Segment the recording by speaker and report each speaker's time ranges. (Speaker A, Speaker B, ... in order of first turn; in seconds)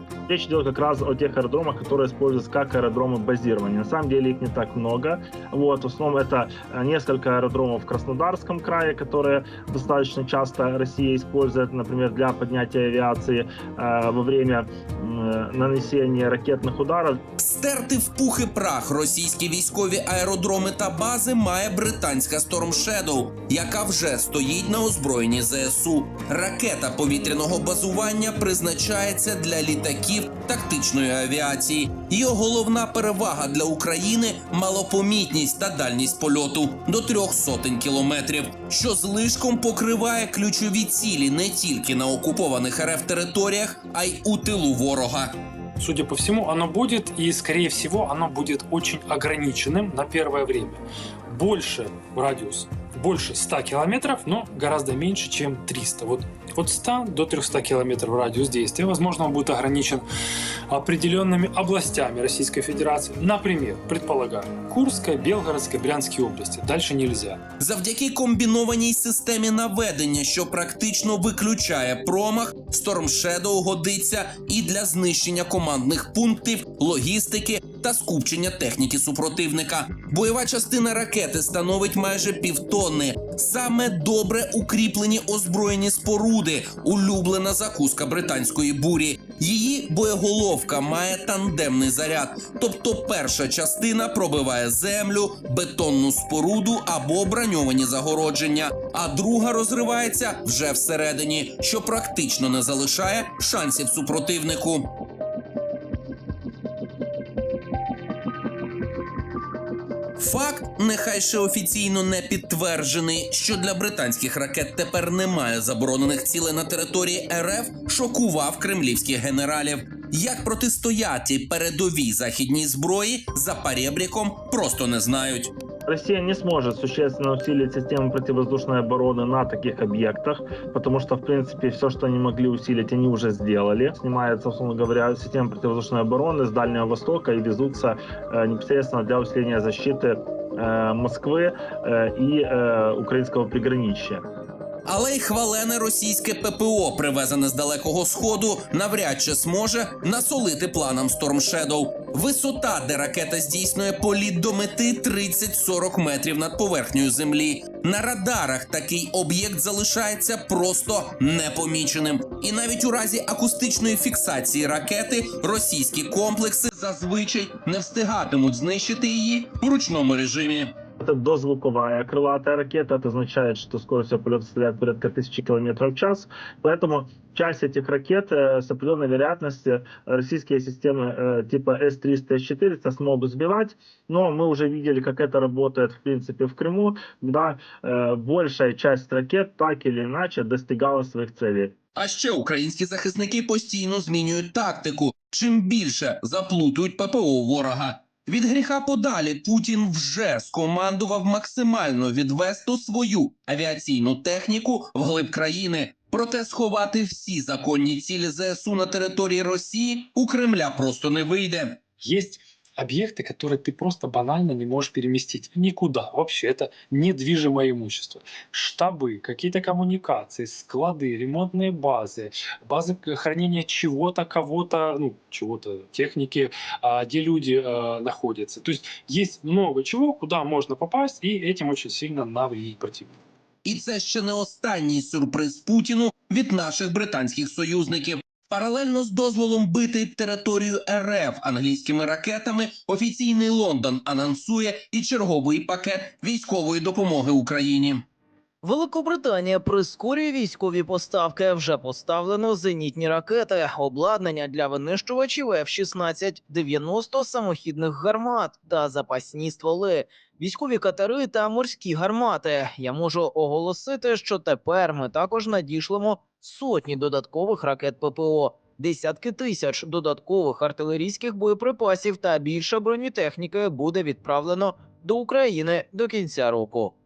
Speaker A: 0.3-17.2, 125.9-144.2, 171.0-191.8
Speaker B: 17.4-45.4, 67.6-104.9, 110.2-125.5, 144.9-170.7, 192.0-211.8, 233.7-248.0
Speaker C: 45.8-60.1, 60.7-67.4, 212.0-233.1
Speaker D: 248.6-276.9